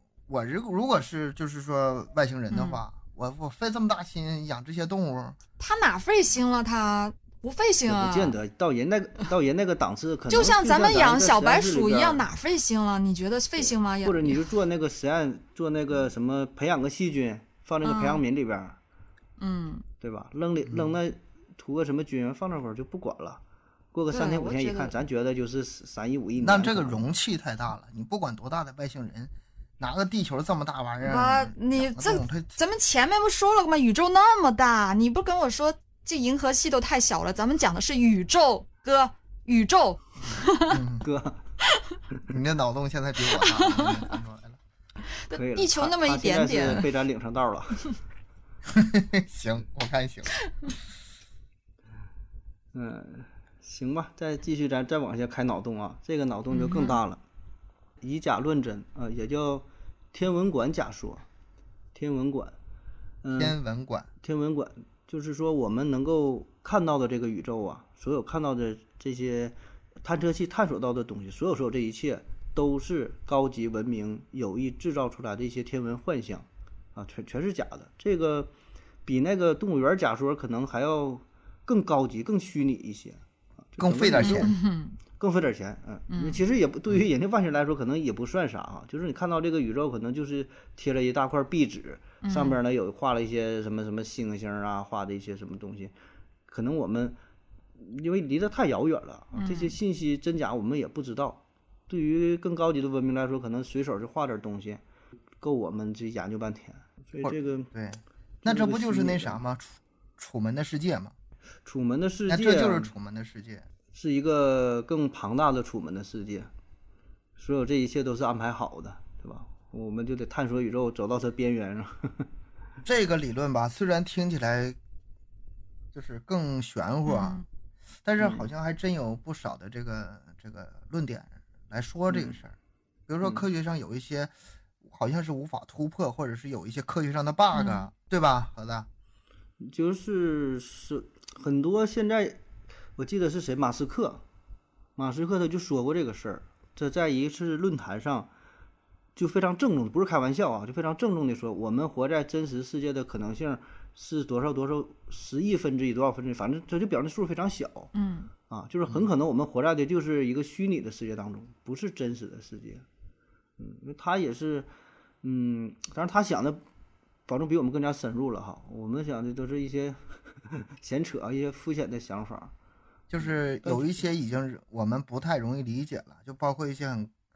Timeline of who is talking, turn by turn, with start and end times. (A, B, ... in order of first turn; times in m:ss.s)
0:00.3-0:05.4 A
0:02.5-0:02.8 B
0:05.6-0:08.4 B
0:07.9-0:12.2 C
0:10.3-0:14.4 B
0:13.6-0:18.8 C
0:17.8-0:18.2 B
0:19.4-0:19.8 B
0:20.0-0:23.4 C
0:20.7-0:21.0 A
0:23.9-0:27.1 C
0:24.1-0:24.9 B
0:26.4-0:32.6 A
0:31.0-0:40.8 B
0:40.2-0:41.1 A
0:41.0-0:41.4 C
0:42.3-0:44.6 A
0:43.3-0:44.1 B
0:45.1-0:46.9 B
0:45.3-0:47.9 C
0:48.7-0:50.3 A
0:52.7-0:57.2 C
0:56.5-0:57.0 B
0:58.0-1:01.2 C
1:02.0-1:02.6 C
1:03.2-1:03.6 C
1:03.4-1:04.1 A
1:04.2-1:18.5 C
1:19.1-1:24.5 C
1:23.8-1:24.5 A
1:24.2-1:25.0 B
1:25.2-1:35.9 C
1:26.1-1:26.4 B
1:32.2-1:32.6 B
1:36.5-1:37.2 C
1:37.8-1:44.8 C
1:39.4-1:39.8 B
1:45.4-1:47.7 C
1:47.2-1:51.1 A
1:48.4-1:49.4 C
1:51.6-1:52.9 C
1:52.3-1:53.7 A
1:53.9-1:56.5 C
1:57.4-2:02.3 C
2:02.8-2:04.8 A
2:05.9-2:07.4 A
2:07.1-2:07.4 B
2:08.0-2:12.6 A
2:08.2-2:08.5 C
2:12.1-2:12.4 C
2:13.1-2:14.3 A
2:14.8-2:18.9 A
2:17.5-2:17.9 B
2:19.6-2:22.4 C
2:23.0-2:24.2 C
2:25.0-2:28.3 C
2:29.2-2:37.9 C
2:37.9-2:38.3 B
2:38.5-2:42.8 C
2:43.6-2:44.7 C
2:45.2-2:46.6 C
2:47.3-2:52.5 C
2:53.1-2:57.1 A
2:53.6-2:54.1 C